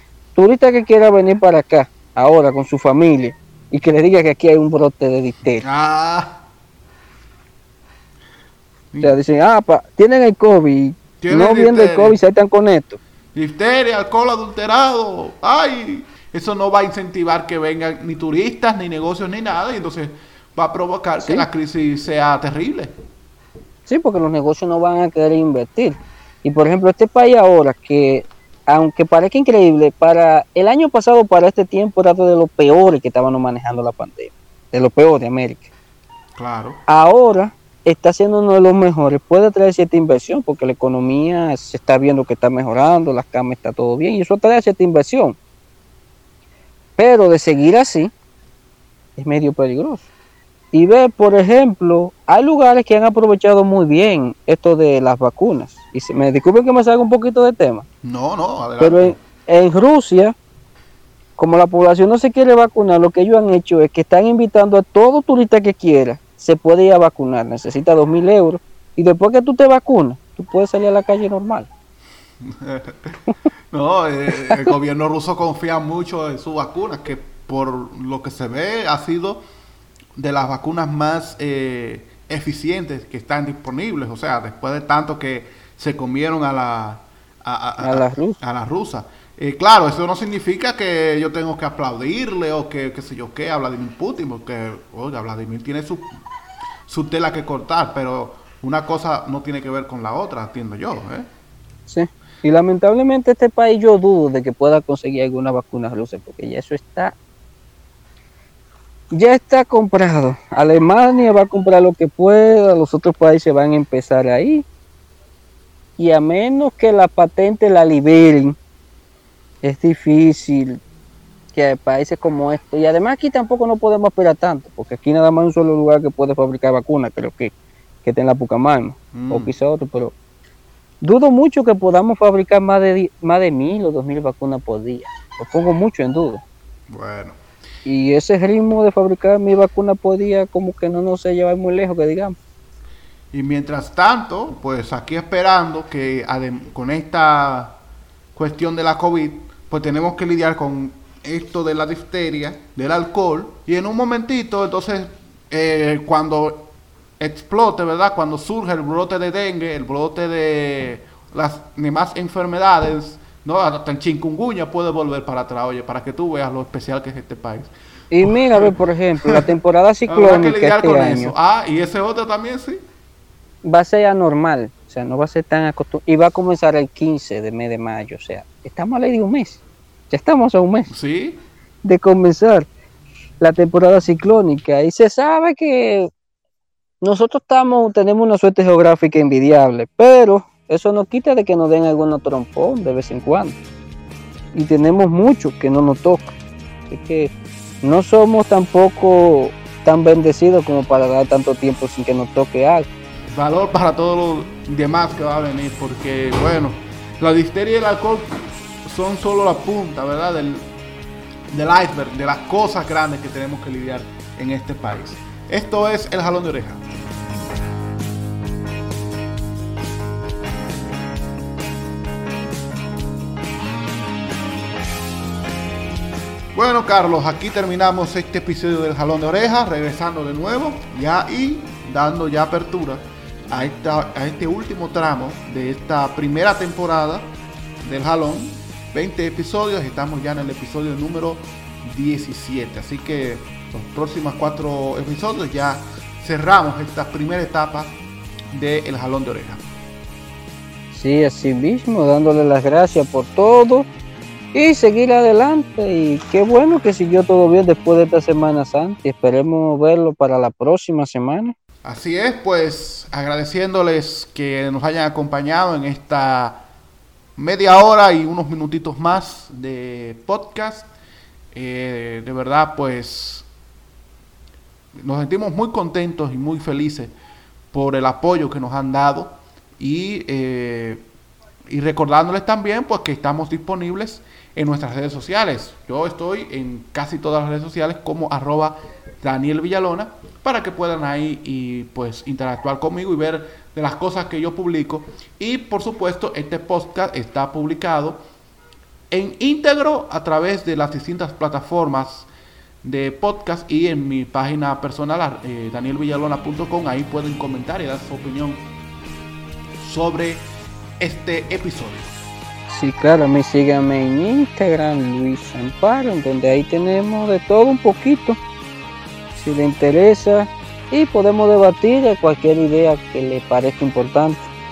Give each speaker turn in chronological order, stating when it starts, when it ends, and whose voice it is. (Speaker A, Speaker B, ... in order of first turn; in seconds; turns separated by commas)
Speaker A: 0.3-5.6, Speaker B: 5.6-6.4, Speaker B: 8.9-9.2, Speaker A: 9.0-13.0, Speaker B: 11.2-12.2, Speaker B: 13.3-22.9, Speaker A: 21.2-21.4, Speaker A: 23.9-35.7, Speaker B: 36.4-36.8, Speaker A: 36.9-45.4, Speaker A: 47.0-48.1, Speaker A: 49.2-50.0, Speaker A: 50.7-57.9, Speaker B: 58.0-59.2, Speaker A: 58.8-60.3, Speaker A: 61.4-71.7, Speaker B: 72.4-73.2, Speaker B: 73.7-79.4, Speaker A: 74.4-74.7, Speaker B: 80.2-96.1, Speaker A: 87.8-88.4, Speaker B: 96.9-101.2, Speaker A: 101.9-107.2, Speaker A: 109.1-114.6, Speaker A: 116.0-118.6, Speaker A: 119.6-120.8, Speaker A: 121.5-127.5, Speaker A: 128.0-130.1, Speaker B: 129.1-129.5, Speaker A: 131.0-136.4, Speaker B: 136.9-137.4, Speaker A: 137.8-142.3, Speaker B: 143.3-147.8, Speaker B: 148.3-167.7, Speaker A: 168.1-171.3, Speaker B: 168.2-169.5, Speaker B: 170.1-172.8, Speaker A: 173.6-180.9, Speaker B: 180.9-181.4, Speaker A: 181.8-182.7, Speaker A: 183.4-186.1, Speaker A: 187.0-193.6, Speaker A: 194.5-196.3, Speaker A: 196.9-202.9, Speaker B: 203.3-210.7, Speaker B: 211.5-216.8, Speaker B: 226.5-237.3, Speaker B: 237.8-247.9, Speaker B: 248.5-249.6, Speaker A: 250.9-253.9, Speaker A: 254.5-261.5, Speaker B: 261.8-266.6, Speaker B: 267.4-270.9, Speaker B: 271.5-273.4, Speaker B: 275.0-277.1, Speaker B: 277.7-281.0, Speaker B: 281.7-298.2, Speaker B: 299.1-302.3, Speaker B: 302.8-308.6, Speaker B: 309.8-310.4, Speaker B: 311.0-312.1, Speaker A: 312.7-318.4, Speaker A: 319.3-324.5